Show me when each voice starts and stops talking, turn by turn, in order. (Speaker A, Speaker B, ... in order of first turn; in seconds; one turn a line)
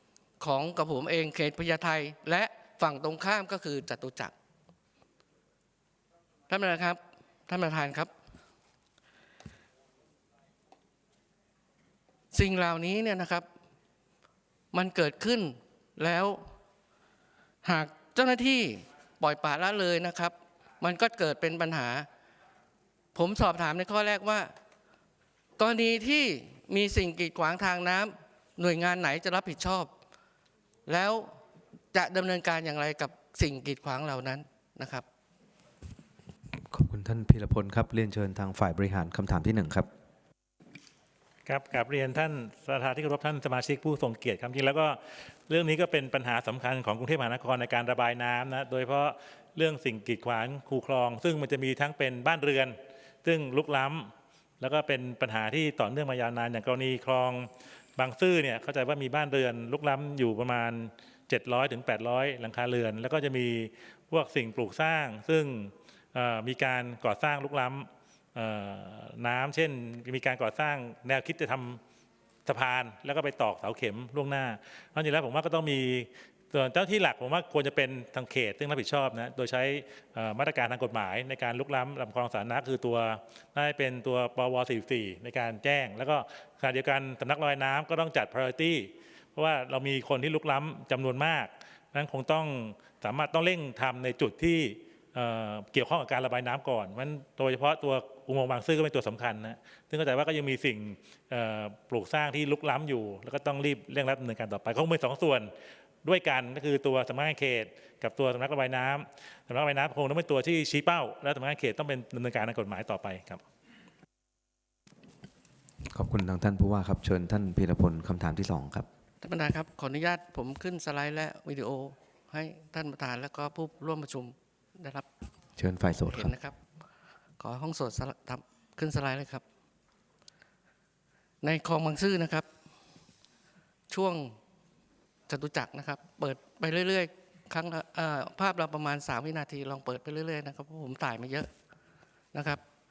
Speaker A: 0.4-4.3
Speaker A: 6.5-8.1
Speaker A: 12.3-13.4
Speaker A: 14.7-16.4
Speaker A: 17.6-22.1
Speaker A: 23.1-24.5
Speaker A: 25.6-29.9
Speaker A: 30.9-31.3
Speaker A: 31.9-35.0
Speaker B: 36.7-39.9
Speaker C: 41.5-71.8
Speaker C: 72.5-105.5
Speaker C: 106.0-113.4
Speaker B: 115.9-118.9
Speaker A: 119.2-125.1
Speaker B: 125.6-126.3
Speaker A: 126.0-126.5
Speaker A: 127.4-129.4
Speaker A: 131.4-132.4
Speaker A: 133.9-134.3
Speaker A: 135.3-141.5
Speaker A: 142.3-142.6